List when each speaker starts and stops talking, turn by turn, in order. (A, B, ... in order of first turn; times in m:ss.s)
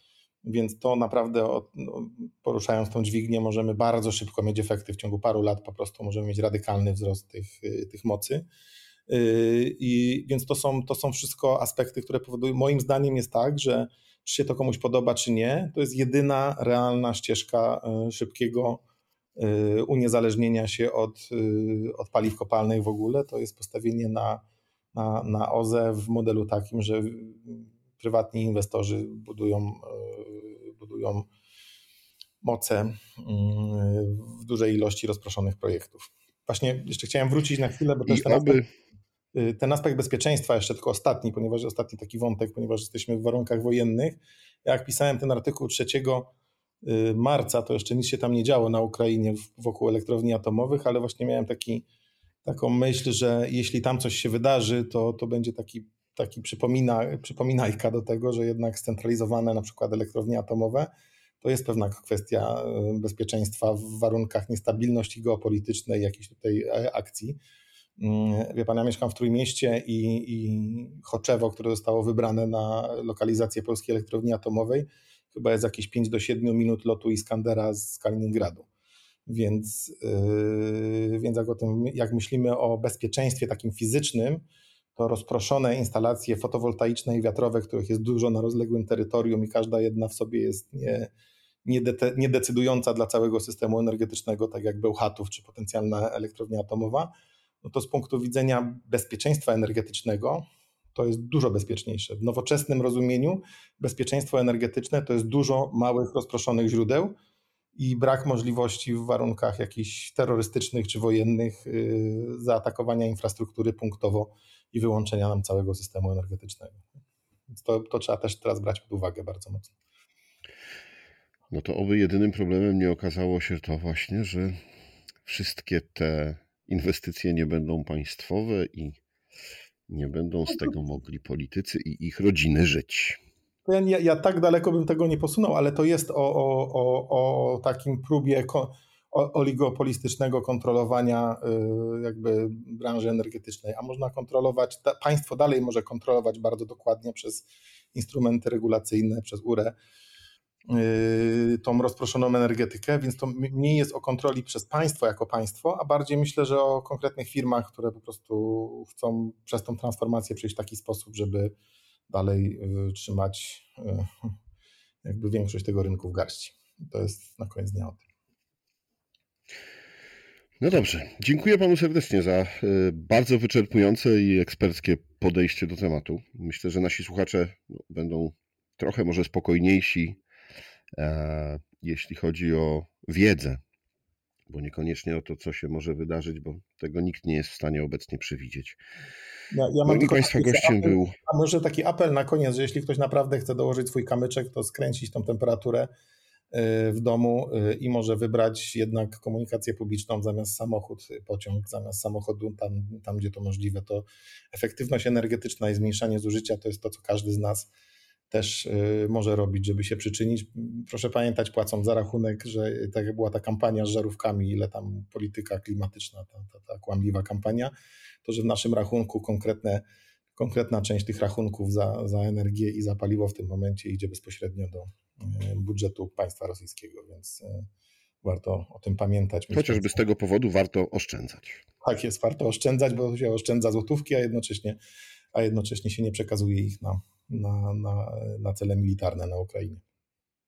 0:00.4-0:08.4 A
0:09.1-0:18.8 A
0:19.4-0:24.4 A
0:24.9-0:31.3 A
0:32.4-0:38.6 A
0:38.1-0:38.7 B
0:39.3-0:51.8 A
0:52.4-1:00.9 A
1:01.4-1:07.4 A
1:08.0-1:18.7 A
1:19.3-1:31.1 A
1:31.6-1:37.1 A
1:37.6-1:47.2 A
1:47.8-1:56.8 A
1:57.5-1:59.7 A
2:01.5-2:04.6 B
2:05.2-2:09.0 B
2:09.9-2:13.2 B
2:13.7-2:29.8 A
2:30.7-2:41.5 A
2:42.1-2:44.3 A
2:45.0-2:48.0 A
2:50.6-3:00.2 B
3:01.0-3:03.6 B
3:04.5-3:08.8 B
3:09.5-3:15.9 A
3:09.9-3:11.2 B
3:16.5-3:27.7 A
3:28.3-3:37.7 A
3:38.2-3:39.8 A
3:40.4-3:47.7 A
3:48.2-3:50.0 A
3:49.5-3:51.6 B
3:51.8-3:54.8 A
3:55.3-3:59.8 A